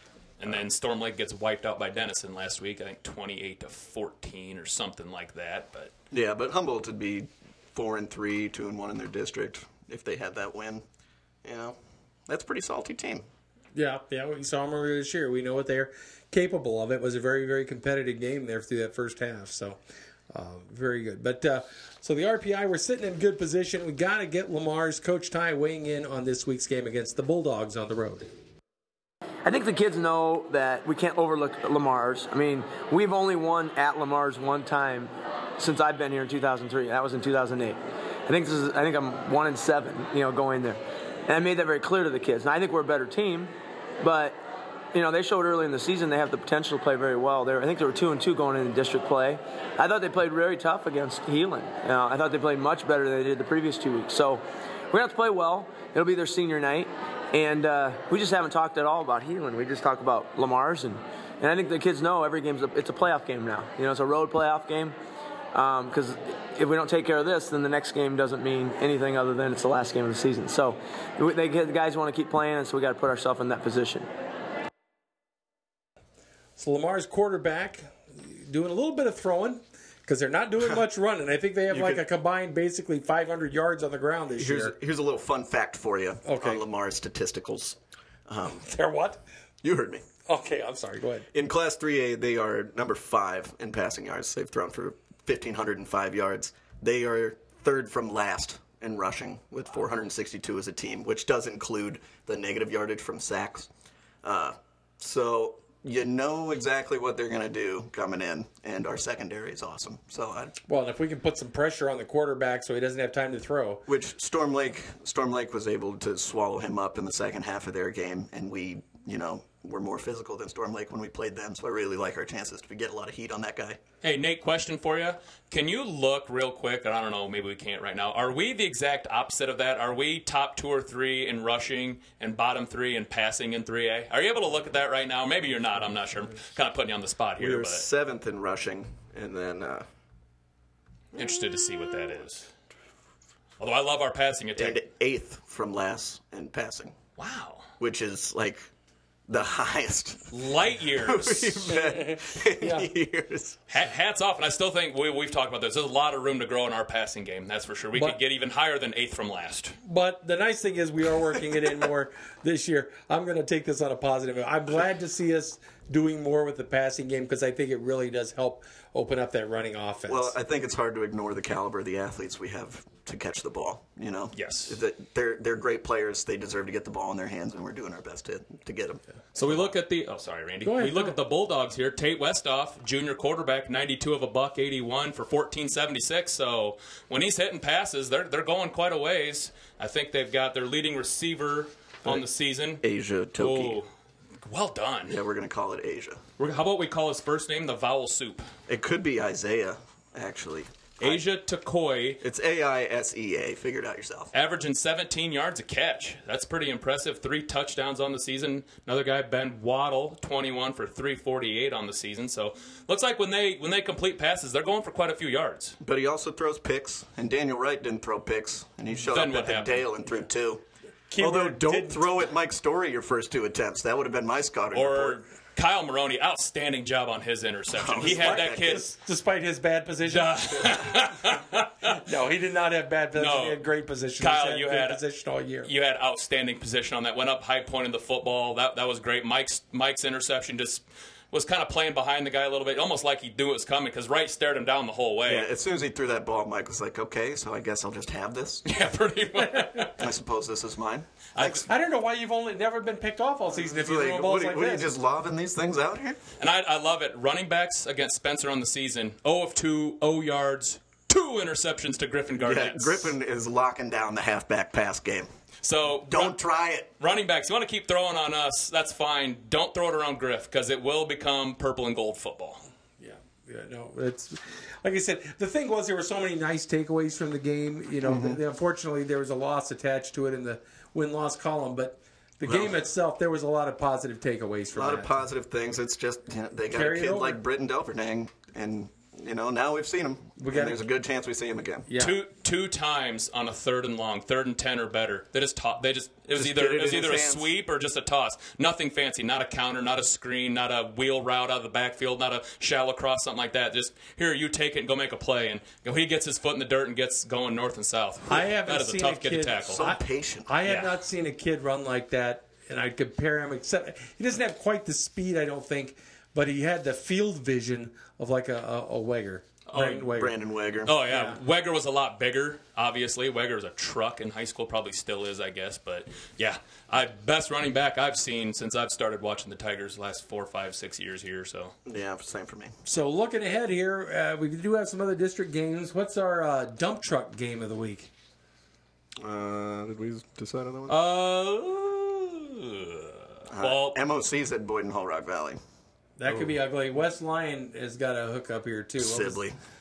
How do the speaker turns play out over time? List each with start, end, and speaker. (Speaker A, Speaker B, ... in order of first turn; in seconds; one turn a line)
Speaker A: 0.4-5.9
Speaker B: 6.1-10.8
Speaker B: 11.4-11.8
Speaker B: 12.3-13.2
Speaker C: 13.8-28.3
Speaker D: 29.4-44.4
Speaker D: 44.9-65.0
Speaker D: 65.5-74.1
Speaker C: 76.6-84.8
Speaker B: 81.7-82.0
Speaker B: 84.4-88.7
Speaker C: 86.2-86.6
Speaker C: 88.6-89.2
Speaker B: 89.6-90.0
Speaker C: 90.3-91.3
Speaker B: 91.3-103.7
Speaker B: 104.2-110.6
Speaker C: 110.7-113.9
Speaker B: 113.9-123.8
Speaker A: 124.0-137.9
Speaker B: 137.4-139.8
Speaker A: 141.2-142.5
Speaker A: 143.6-144.8
Speaker B: 144.6-147.0
Speaker A: 147.2-147.7
Speaker B: 147.8-148.6
Speaker B: 149.3-150.3
Speaker A: 150.3-151.8
Speaker B: 151.0-153.6
Speaker C: 151.7-152.9
Speaker A: 153.7-159.8
Speaker C: 159.8-170.3
Speaker B: 170.1-179.7
Speaker A: 174.3-174.8
Speaker A: 179.3-192.8
Speaker C: 180.6-181.2
Speaker B: 192.8-193.8
Speaker A: 193.4-193.9
Speaker A: 194.4-195.2
Speaker B: 195.1-196.2
Speaker A: 196.4-198.4
Speaker B: 198.7-201.2
Speaker A: 201.0-202.2
Speaker B: 202.2-204.3
Speaker A: 204.3-215.8
Speaker B: 215.8-220.6
Speaker A: 219.1-219.9
Speaker C: 221.1-222.1
Speaker B: 221.2-225.2
Speaker A: 224.7-228.9
Speaker B: 227.7-228.8
Speaker C: 228.0-230.9
Speaker A: 230.1-232.0
Speaker C: 231.8-235.7
Speaker A: 233.2-233.6
Speaker A: 234.2-235.0
Speaker A: 235.7-245.5
Speaker B: 245.3-248.7
Speaker A: 248.7-250.1
Speaker B: 250.0-251.7
Speaker A: 251.3-251.7
Speaker C: 251.7-254.9
Speaker B: 253.6-256.2
Speaker A: 256.4-263.1
Speaker B: 262.4-265.3
Speaker A: 265.6-266.4
Speaker B: 266.1-266.9
Speaker A: 267.0-272.6
Speaker C: 273.0-285.1
Speaker B: 278.0-278.4
Speaker B: 282.4-282.7
Speaker B: 284.8-291.9
Speaker C: 286.7-287.4
Speaker C: 290.4-290.8
Speaker C: 291.9-292.2
Speaker A: 292.0-309.9
Speaker B: 296.4-297.5
Speaker C: 308.3-320.3
Speaker B: 309.7-310.5
Speaker A: 310.6-310.9
Speaker A: 319.7-320.1
Speaker B: 320.1-320.9
Speaker A: 320.9-331.8
Speaker C: 321.1-321.4
Speaker B: 331.9-332.7
Speaker C: 332.9-338.1
Speaker B: 339.2-341.0
Speaker A: 340.9-344.0
Speaker B: 343.5-345.6
Speaker C: 346.2-349.4
Speaker B: 349.0-349.6